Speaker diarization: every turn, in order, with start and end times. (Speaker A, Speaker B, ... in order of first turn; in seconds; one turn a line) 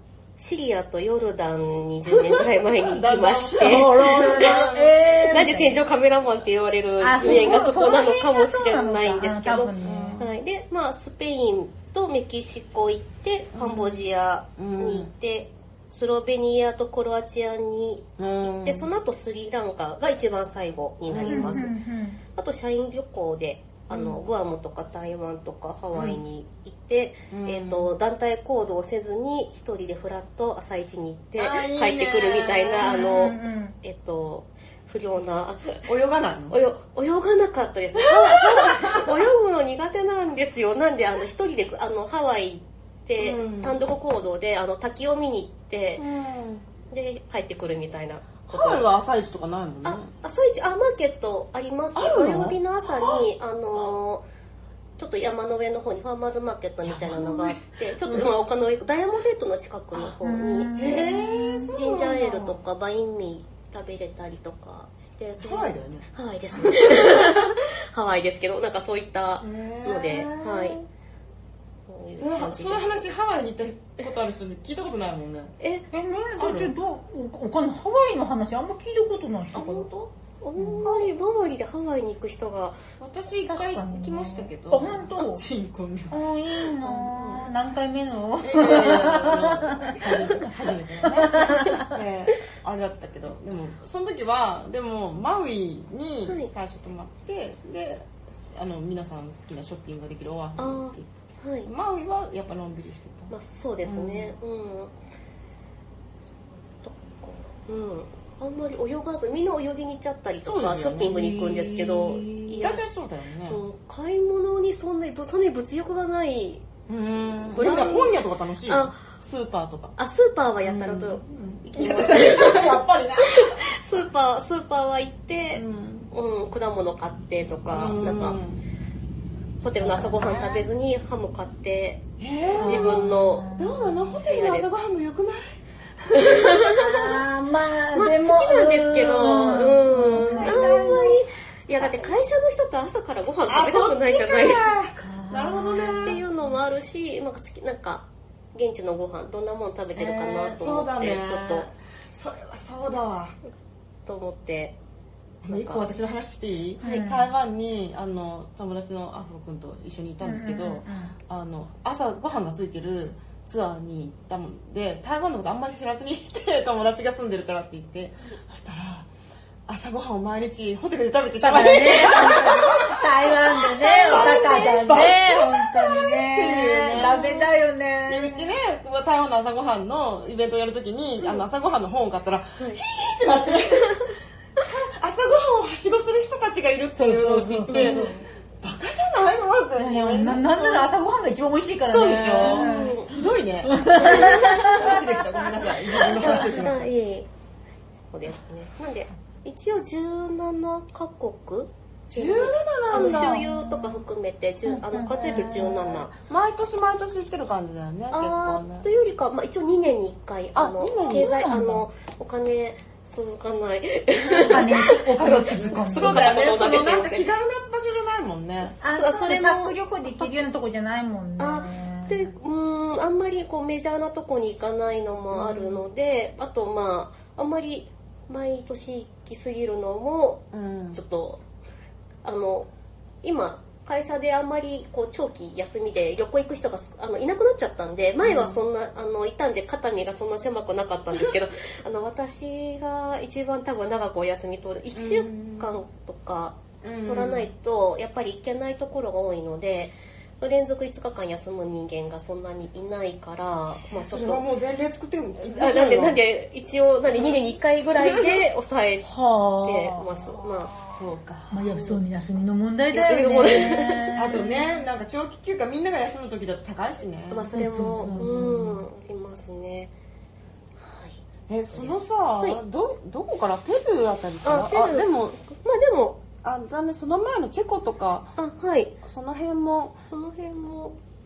Speaker A: 0.4-21.7
Speaker B: 2.0-5.0
Speaker C: 3.6-5.8
Speaker C: 7.0-10.2
Speaker B: 7.2-7.7
Speaker B: 9.8-10.2
Speaker B: 13.5-15.1
Speaker B: 18.2-18.9
Speaker B: 21.1-21.7
Speaker C: 21.3-22.2
Speaker A: 22.3-35.9
Speaker B: 23.9-24.2
Speaker B: 25.9-26.2
Speaker B: 27.3-27.9
Speaker B: 31.4-33.3
Speaker C: 32.8-33.8
Speaker B: 35.9-36.6
Speaker A: 36.5-46.0
Speaker B: 37.9-39.2
Speaker B: 43.2-43.8
Speaker B: 46.0-46.6
Speaker A: 46.9-48.8
Speaker B: 48.4-50.1
Speaker A: 49.8-54.2
Speaker B: 51.9-53.9
Speaker A: 55.0-70.8
Speaker B: 56.8-58.3
Speaker B: 59.9-60.2
Speaker C: 60.2-61.7
Speaker B: 60.7-62.6
Speaker B: 65.4-67.5
Speaker B: 69.4-70.8
Speaker A: 71.9-73.0
Speaker B: 72.2-75.5
Speaker A: 75.6-75.8
Speaker C: 75.9-79.9
Speaker B: 76.4-76.7
Speaker A: 79.5-82.8
Speaker C: 80.6-80.9
Speaker B: 83.0-87.5
Speaker C: 83.5-85.4
Speaker C: 86.1-90.5
Speaker B: 88.4-101.1
Speaker C: 91.0-91.9
Speaker A: 100.6-101.7
Speaker B: 101.6-103.3
Speaker A: 103.3-104.9
Speaker B: 103.8-104.3
Speaker A: 106.8-116.7
Speaker B: 110.4-113.6
Speaker B: 116.9-120.0
Speaker A: 117.5-119.0
Speaker A: 120.0-128.4
Speaker B: 120.6-123.8
Speaker B: 125.5-126.1
Speaker B: 127.7-128.6
Speaker A: 129.6-133.5
Speaker B: 129.8-130.7
Speaker B: 132.2-136.6
Speaker C: 132.5-134.1
Speaker A: 134.2-134.7
Speaker A: 136.1-137.2
Speaker C: 136.7-141.2
Speaker A: 137.9-144.7
Speaker B: 139.3-141.2
Speaker B: 141.8-142.1
Speaker B: 143.5-146.2
Speaker C: 145.0-146.2
Speaker A: 145.8-151.7
Speaker B: 149.9-153.4
Speaker A: 154.1-154.8
Speaker A: 155.4-155.9
Speaker B: 155.4-169.1
Speaker A: 156.8-157.1
Speaker C: 156.8-157.3
Speaker C: 160.2-161.1
Speaker B: 169.7-177.5
Speaker C: 171.4-178.5
Speaker B: 178.1-184.1
Speaker A: 182.6-184.7
Speaker B: 184.6-190.9
Speaker C: 186.9-188.1
Speaker A: 187.7-188.2
Speaker C: 189.8-193.0
Speaker B: 191.9-196.9
Speaker A: 192.4-193.1
Speaker C: 193.7-195.2
Speaker A: 194.0-194.8
Speaker C: 196.1-196.5
Speaker A: 196.2-197.3
Speaker A: 198.1-206.1
Speaker B: 202.1-203.5
Speaker C: 202.9-204.0
Speaker C: 204.7-205.8
Speaker B: 205.1-208.9
Speaker A: 208.1-217.3
Speaker B: 210.5-211.4
Speaker C: 211.1-211.8
Speaker B: 214.2-214.6
Speaker C: 214.5-216.3
Speaker B: 215.6-218.8
Speaker A: 218.6-220.3
Speaker C: 218.8-222.3
Speaker A: 221.4-231.4
Speaker B: 225.3-225.8
Speaker B: 230.5-231.0
Speaker A: 232.2-232.7
Speaker A: 233.2-254.4
Speaker B: 238.2-238.6
Speaker B: 244.9-245.7
Speaker B: 246.8-247.5
Speaker B: 253.9-256.2
Speaker A: 255.4-259.1
Speaker B: 258.0-258.4
Speaker C: 259.0-260.4
Speaker A: 259.6-260.7
Speaker B: 260.9-261.9
Speaker C: 261.5-264.5
Speaker A: 262.9-264.2
Speaker B: 264.1-268.5
Speaker A: 267.3-269.9
Speaker C: 267.5-268.8
Speaker A: 270.8-272.6
Speaker B: 271.5-275.4
Speaker A: 274.4-276.2
Speaker B: 276.4-278.4
Speaker A: 278.4-279.0
Speaker B: 279.0-280.0
Speaker A: 280.0-281.0